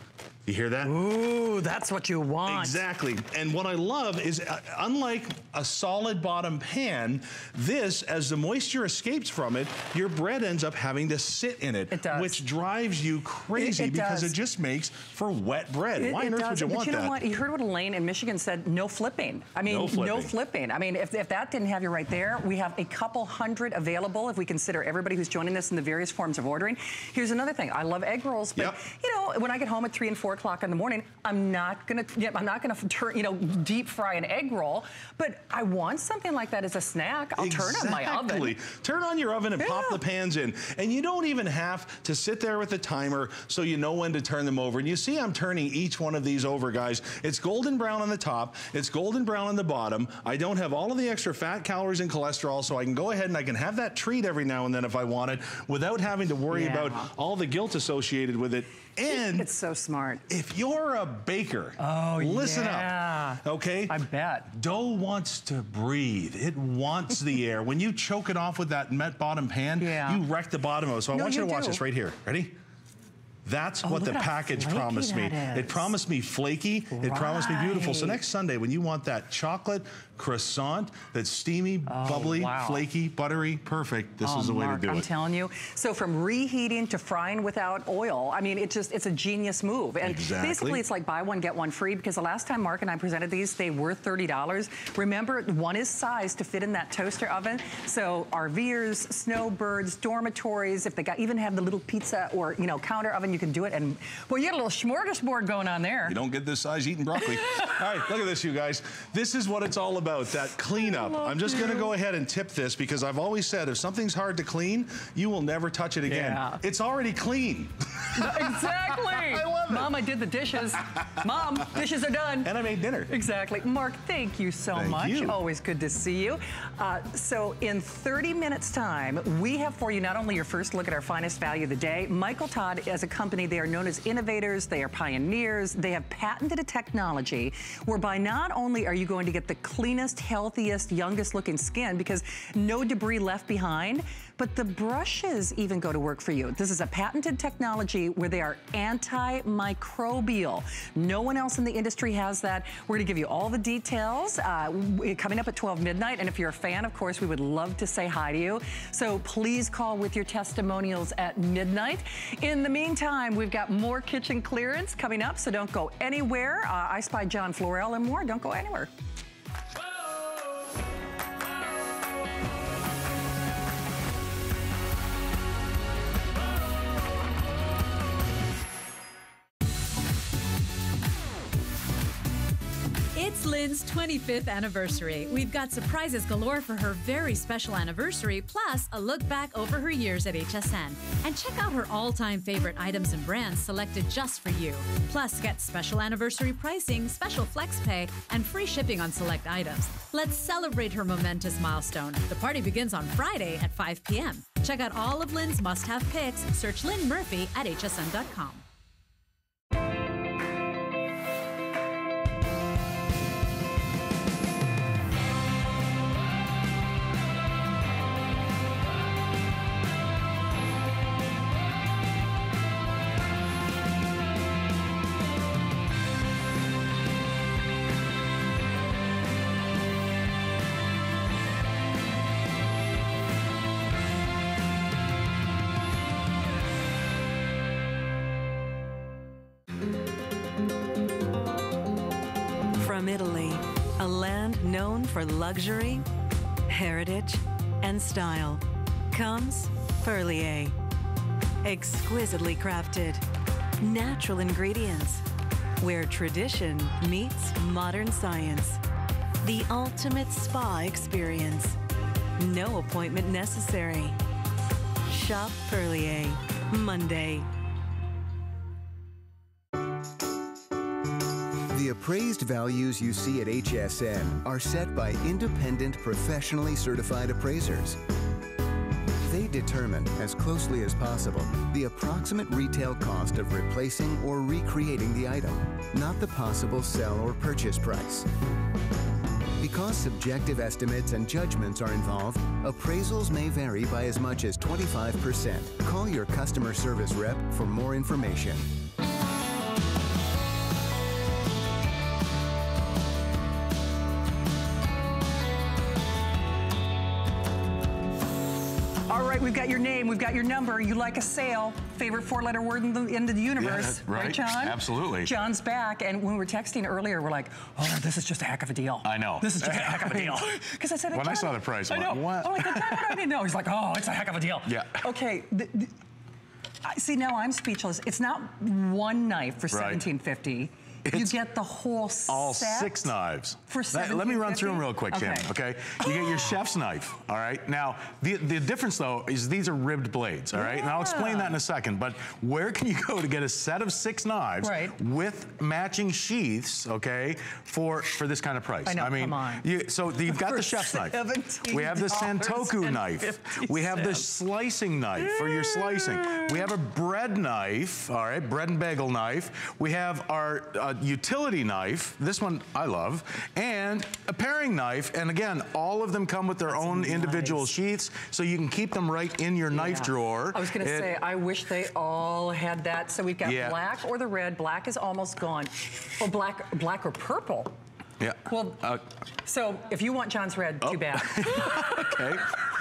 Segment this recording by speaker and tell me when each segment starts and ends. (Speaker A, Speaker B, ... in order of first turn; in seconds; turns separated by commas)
Speaker A: 0.5-0.9, Speaker B: 0.8-2.8, Speaker A: 2.5-17.2, Speaker B: 11.9-12.4, Speaker B: 13.6-14.3, Speaker B: 16.0-38.6, Speaker A: 19.6-20.3, Speaker A: 28.6-28.8, Speaker A: 37.4-59.5, Speaker B: 39.6-40.0, Speaker B: 56.5-57.1, Speaker B: 59.1-60.2, Speaker A: 60.3-64.0, Speaker B: 61.8-64.5, Speaker A: 64.5-72.5, Speaker B: 69.8-70.2, Speaker B: 71.1-71.8, Speaker A: 73.4-85.1, Speaker B: 73.8-75.9, Speaker B: 76.9-78.2, Speaker B: 81.9-82.8, Speaker B: 84.2-106.2, Speaker A: 90.0-90.8, Speaker A: 106.1-120.0, Speaker B: 110.8-111.9, Speaker B: 116.1-116.6, Speaker B: 118.1-122.5, Speaker A: 120.8-121.2, Speaker A: 122.4-123.1, Speaker B: 123.1-168.9, Speaker A: 124.7-125.4, Speaker C: 183.1-208.6, Speaker D: 242.8-246.1, Speaker D: 246.7-250.8, Speaker D: 251.6-253.2, Speaker D: 253.8-255.2, Speaker D: 255.8-258.8, Speaker D: 259.4-261.8, Speaker D: 262.4-264.1, Speaker D: 265.1-267.5, Speaker E: 271.7-278.0, Speaker E: 279.2-288.3, Speaker E: 289.6-298.7, Speaker B: 309.1-325.9, Speaker F: 313.6-315.3, Speaker F: 319.0-320.4, Speaker F: 321.1-323.0, Speaker B: 326.9-333.1, Speaker F: 329.7-330.0, Speaker F: 332.3-351.1, Speaker B: 333.7-336.5, Speaker B: 340.5-341.6, Speaker B: 344.6-345.0, Speaker B: 348.9-349.7, Speaker B: 350.3-354.3, Speaker F: 351.7-371.1, Speaker B: 355.2-356.7, Speaker B: 366.7-367.7, Speaker B: 369.7-377.7, Speaker F: 373.4-373.8, Speaker F: 378.2-379.0, Speaker B: 378.5-378.9, Speaker B: 379.4-382.1, Speaker F: 380.9-382.4